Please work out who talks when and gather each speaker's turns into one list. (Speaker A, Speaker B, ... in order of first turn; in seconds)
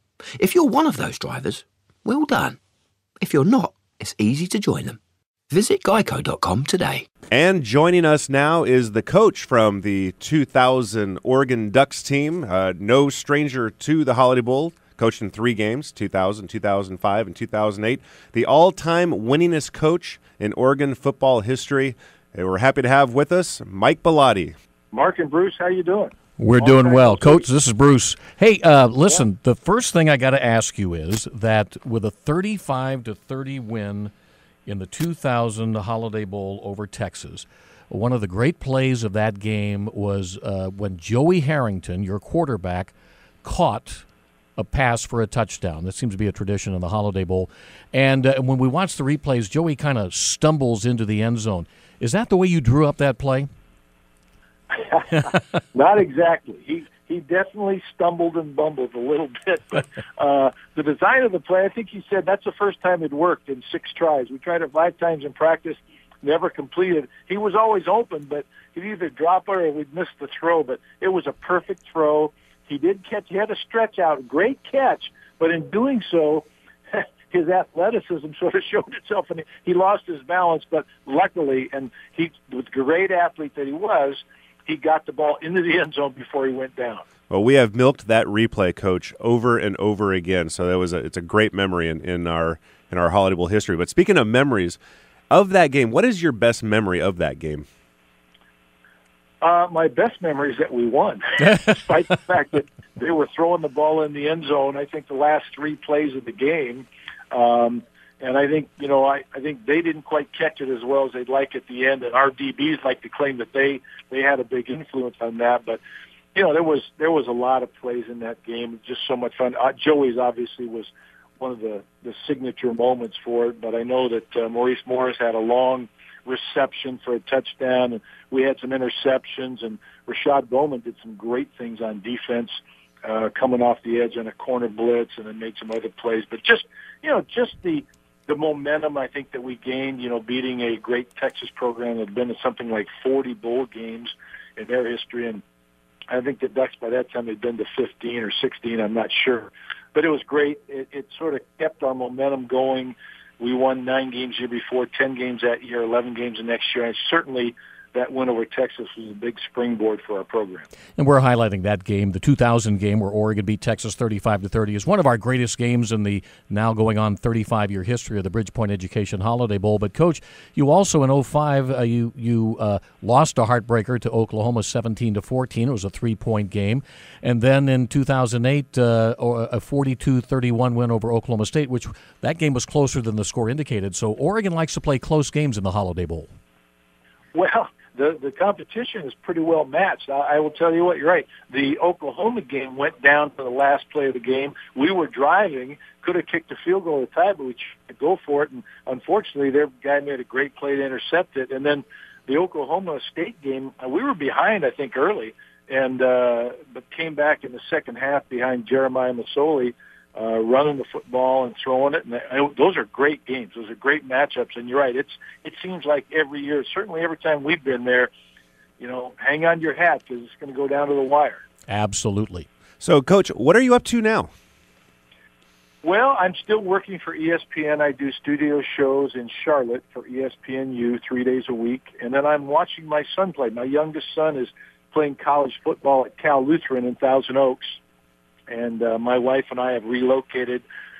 Speaker A: 0.4-2.6, 3.2-5.0, 5.5-7.1
Speaker B: 7.3-24.5, 87.3-94.8, 95.3-97.7, 222.8-224.3
Speaker C: 24.9-27.4, 54.8-55.1, 55.7-87.0, 99.4-115.8, 116.3-145.4, 146.1-160.7, 187.3-218.1, 218.8-221.4, 225.8-237.8, 238.5-240.6
Speaker D: 26.4-34.1, 34.6-44.0, 44.6-53.5, 160.9-186.3, 221.7-222.5